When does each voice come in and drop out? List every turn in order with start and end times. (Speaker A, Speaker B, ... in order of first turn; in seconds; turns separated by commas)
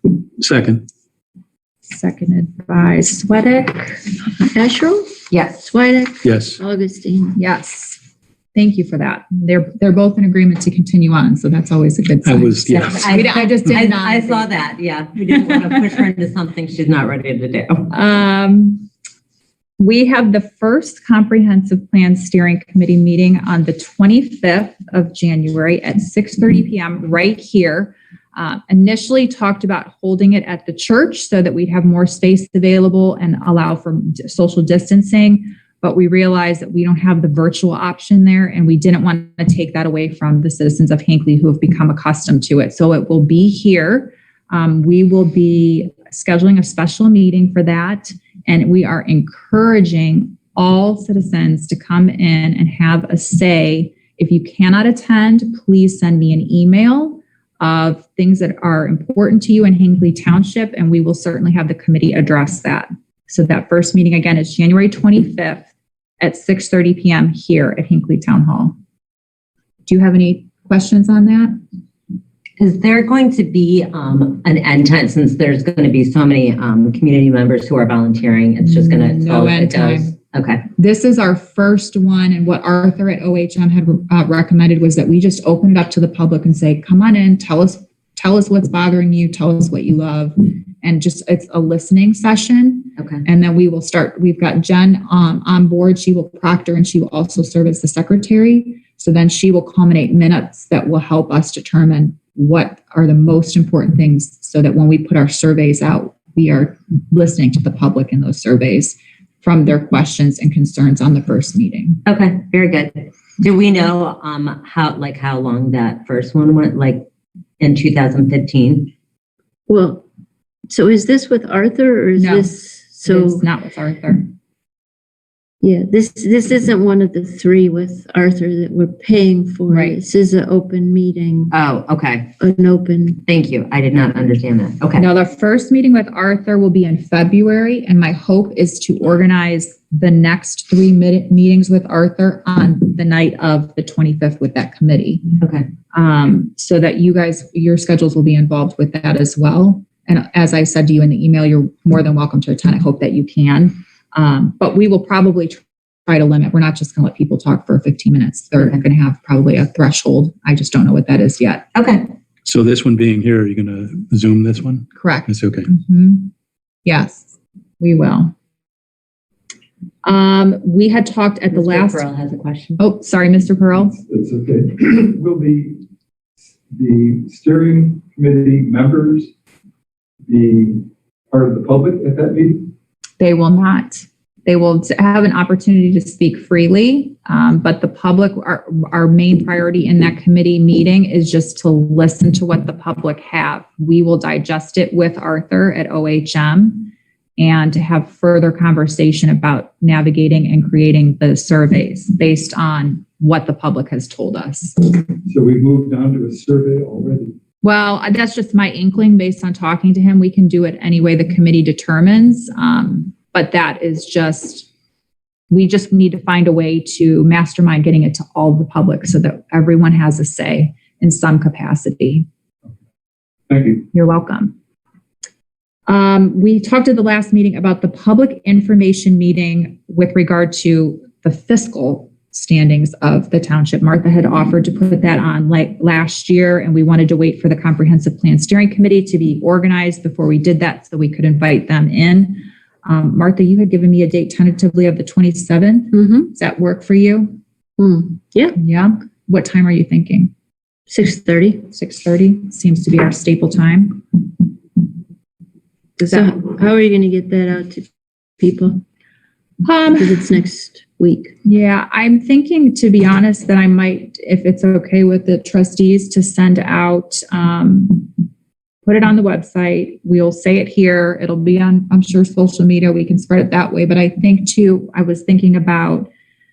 Speaker A: 0.4-0.8, Speaker B: 1.9-4.0, Speaker C: 4.4-7.4, Speaker A: 6.2-6.6, Speaker B: 7.4-8.0, Speaker B: 8.6-14.6, Speaker A: 12.2-13.2, Speaker D: 12.9-17.9, Speaker B: 17.9-18.9, Speaker B: 19.8-65.7, Speaker B: 66.2-68.8, Speaker B: 69.9-71.5, Speaker D: 72.6-80.6, Speaker B: 78.7-80.2, Speaker B: 80.8-112.0, Speaker D: 93.0-93.2, Speaker D: 112.1-117.0, Speaker D: 117.6-118.9, Speaker C: 119.7-120.0, Speaker C: 120.7-123.5, Speaker B: 122.2-124.3, Speaker C: 125.6-131.5, Speaker B: 129.7-130.0, Speaker D: 131.5-132.4, Speaker C: 132.4-133.2, Speaker D: 133.3-135.1, Speaker B: 135.0-145.4, Speaker D: 145.4-145.7, Speaker B: 145.9-161.7, Speaker D: 161.8-162.1, Speaker A: 162.4-165.7, Speaker B: 164.9-166.3, Speaker B: 166.8-168.3, Speaker B: 170.0-172.1, Speaker D: 171.5-172.8, Speaker B: 172.8-174.0, Speaker E: 173.8-175.8, Speaker E: 176.7-179.3, Speaker E: 180.2-182.7, Speaker B: 183.2-204.9, Speaker E: 205.3-207.4, Speaker B: 207.6-214.7, Speaker B: 215.5-222.3, Speaker E: 223.5-223.9, Speaker B: 223.9-224.6, Speaker B: 225.9-247.4, Speaker C: 245.9-246.3, Speaker C: 247.8-248.6, Speaker B: 248.6-250.3, Speaker C: 250.9-251.7, Speaker B: 251.7-254.2, Speaker C: 256.0-258.8, Speaker B: 256.1-256.4, Speaker B: 259.6-260.3, Speaker C: 260.0-261.4, Speaker B: 261.4-268.1, Speaker B: 268.9-276.1